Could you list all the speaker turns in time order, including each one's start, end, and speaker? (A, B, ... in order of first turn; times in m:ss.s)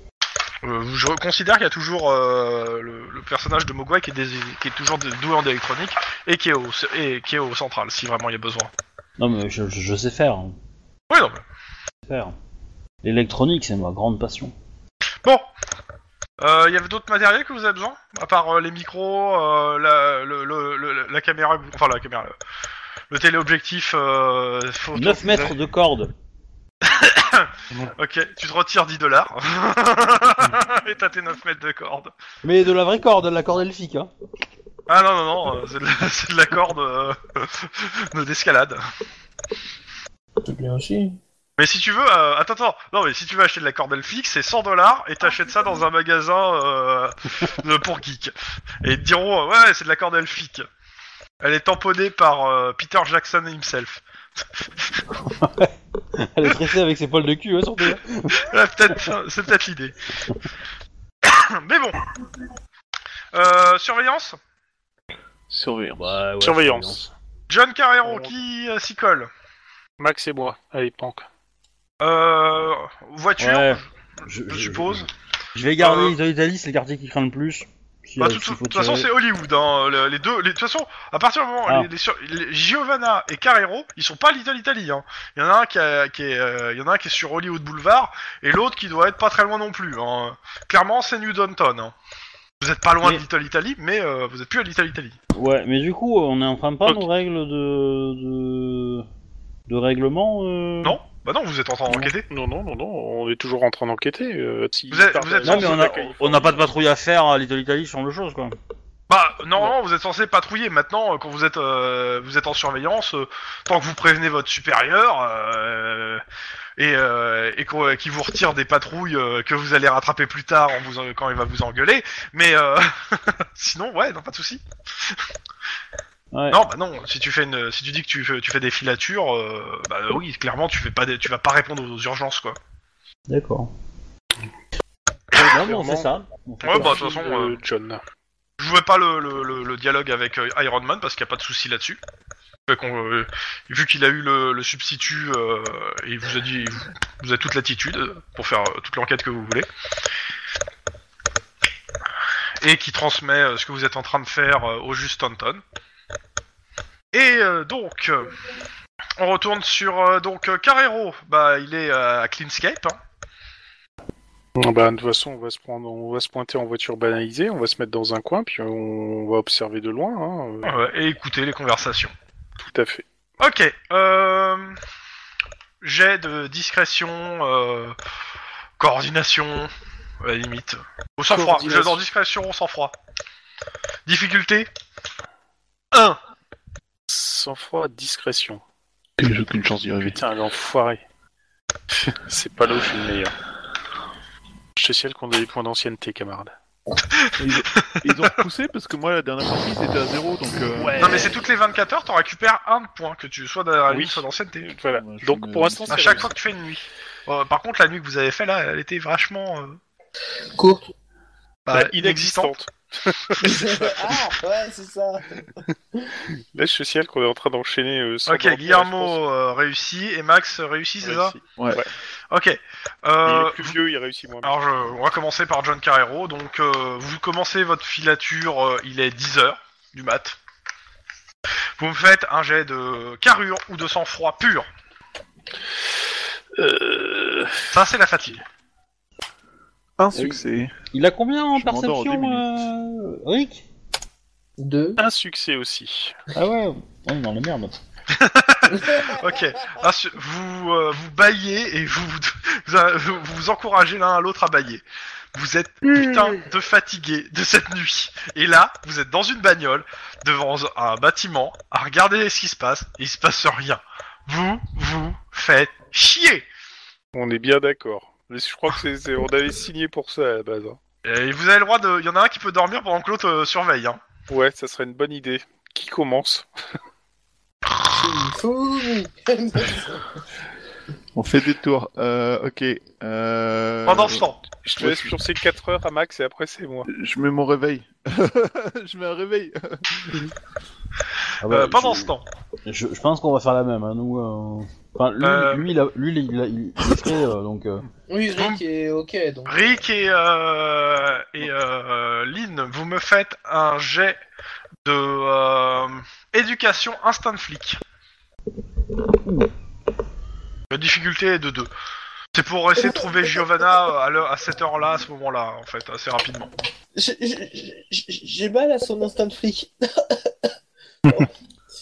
0:00.6-0:08.7 A
0:09.2-0:10.5 B
0:11.1-0:11.4 A
0:12.1-0:12.3 B
0:13.0-0:14.5 B
0:16.4-0:22.3 A
0:23.1-0:25.5 A
0:24.9-0:26.1 B
0:26.8-0:32.1 A
0:32.4-0:34.1 B
0:34.9-0:38.8 A
0:40.4-0:41.2 C
0:41.6-0:50.7 A
0:51.4-0:54.0 A
0:55.2-0:58.4 B
0:58.4-1:00.0 A
1:01.2-1:02.0 A
1:03.3-1:04.4 A
1:05.5-1:06.1 D
1:06.0-1:07.1 B
1:06.4-1:07.1 E
1:07.5-1:09.3 A
1:10.0-1:11.3 E
1:12.0-1:13.9 A
1:13.4-1:19.1 B
1:14.5-1:15.1 A
1:15.8-1:16.2 A
1:18.2-1:31.9 A
1:32.6-1:35.2 A
1:35.3-1:39.0 B
1:39.7-1:41.0 B
1:40.8-1:42.2 A
1:42.3-1:46.6 E
1:44.9-1:46.0 A
1:45.4-1:48.6 B
1:49.1-1:56.2 A
1:56.8-2:04.6 A
2:06.3-2:06.6 B
2:06.5-2:12.6 A
2:13.3-2:13.7 B
2:15.3-2:16.1 E
2:15.3-2:17.0 B
2:16.6-2:17.6 A
2:16.7-2:18.0 E
2:18.6-2:22.0 A
2:22.7-2:29.7 A
2:32.6-2:35.6 A
2:37.1-2:38.3 A
2:39.2-2:43.0 A
2:44.6-2:50.8 E
2:50.6-2:52.1 A
2:52.7-2:53.0 E
2:53.4-2:54.8 A
2:55.8-2:58.0 A
2:58.8-2:59.7 A
3:00.2-3:02.9 A
3:01.3-3:02.0 E
3:04.0-3:04.7 A
3:05.9-3:06.2 A
3:07.1-3:08.6 E
3:09.2-3:10.2 D
3:10.0-3:11.0 E
3:11.9-3:13.4 E
3:14.8-3:16.5 E
3:17.1-3:18.3 A
3:17.4-3:21.0 D
3:20.8-3:21.4 E
3:21.0-3:24.7 A
3:23.9-3:26.3 E
3:25.0-3:26.3 D
3:25.9-3:29.8 A
3:30.6-3:30.9 C
3:31.7-3:32.6 A
3:31.7-3:34.1 E
3:33.4-3:36.1 C
3:36.3-3:39.2 E
3:38.3-3:41.3 A
3:41.0-3:41.9 E
3:41.6-3:41.8 D
3:42.3-3:43.8 A
3:43.2-3:44.5 E
3:44.4-3:50.4 A
3:51.8-3:54.7 A
3:56.6-3:57.7 E
3:57.7-3:58.4 A
4:00.0-4:00.7 D
4:00.9-4:03.6 B
4:01.5-4:02.4 D
4:04.6-4:05.0 C
4:05.0-4:06.2 E
4:06.3-4:07.8 B
4:08.1-4:14.8 A
4:08.7-4:09.2 C
4:15.3-4:26.5 A
4:27.1-4:30.8 E
4:31.0-4:34.0 A
4:34.3-4:36.5 E
4:37.9-4:40.2 C
4:41.1-4:45.2 D
4:43.8-4:44.4 A
4:44.6-4:46.9 E
4:46.9-4:50.0 D
4:51.4-4:52.1 B
4:51.5-4:52.2 A
4:52.6-4:57.8 B
4:55.2-4:55.7 A
4:58.1-4:59.8 C
4:58.4-4:58.6 A
4:59.5-5:04.2 A
5:04.8-5:07.8 A
5:10.7-5:11.7 A
5:12.3-5:16.5 A
5:12.8-5:13.1 C
5:17.0-5:20.5 C